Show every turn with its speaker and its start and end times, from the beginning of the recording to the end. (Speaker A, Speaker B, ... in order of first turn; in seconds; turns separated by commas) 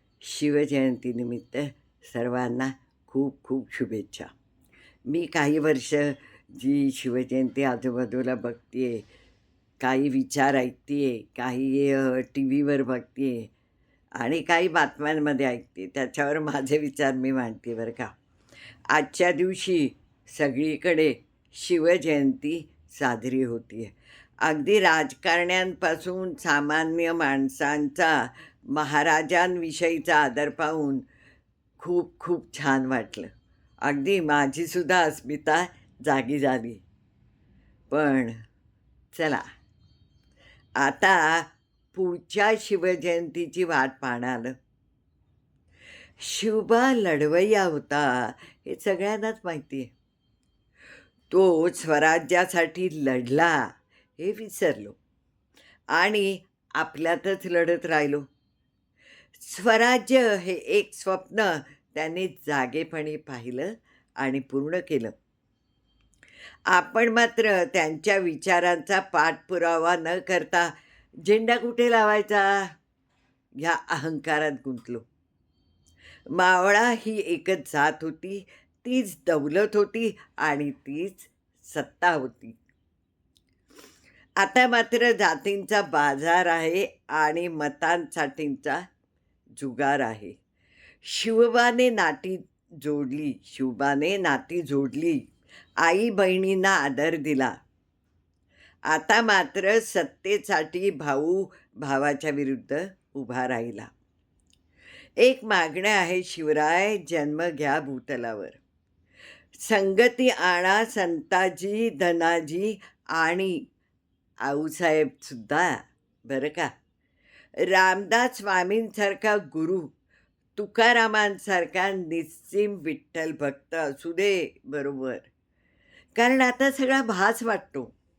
Speaker A: 0.2-4.3, Speaker A: 5.1-9.1, Speaker A: 9.8-13.5, Speaker A: 14.2-18.1, Speaker A: 18.9-31.0, Speaker A: 31.8-33.3, Speaker A: 33.9-36.8, Speaker A: 37.9-38.4, Speaker A: 39.1-39.5, Speaker A: 40.8-44.5, Speaker A: 46.2-49.9, Speaker A: 51.3-55.0, Speaker A: 56.0-58.2, Speaker A: 59.4-65.2, Speaker A: 66.7-70.7, Speaker A: 71.2-72.7, Speaker A: 73.6-75.0, Speaker A: 76.3-82.6, Speaker A: 84.4-88.8, Speaker A: 89.6-90.4, Speaker A: 91.0-95.2, Speaker A: 95.8-97.5, Speaker A: 98.9-103.9, Speaker A: 105.2-108.6, Speaker A: 109.6-113.7, Speaker A: 114.4-116.7, Speaker A: 117.6-119.9, Speaker A: 120.6-125.3, Speaker A: 126.2-127.9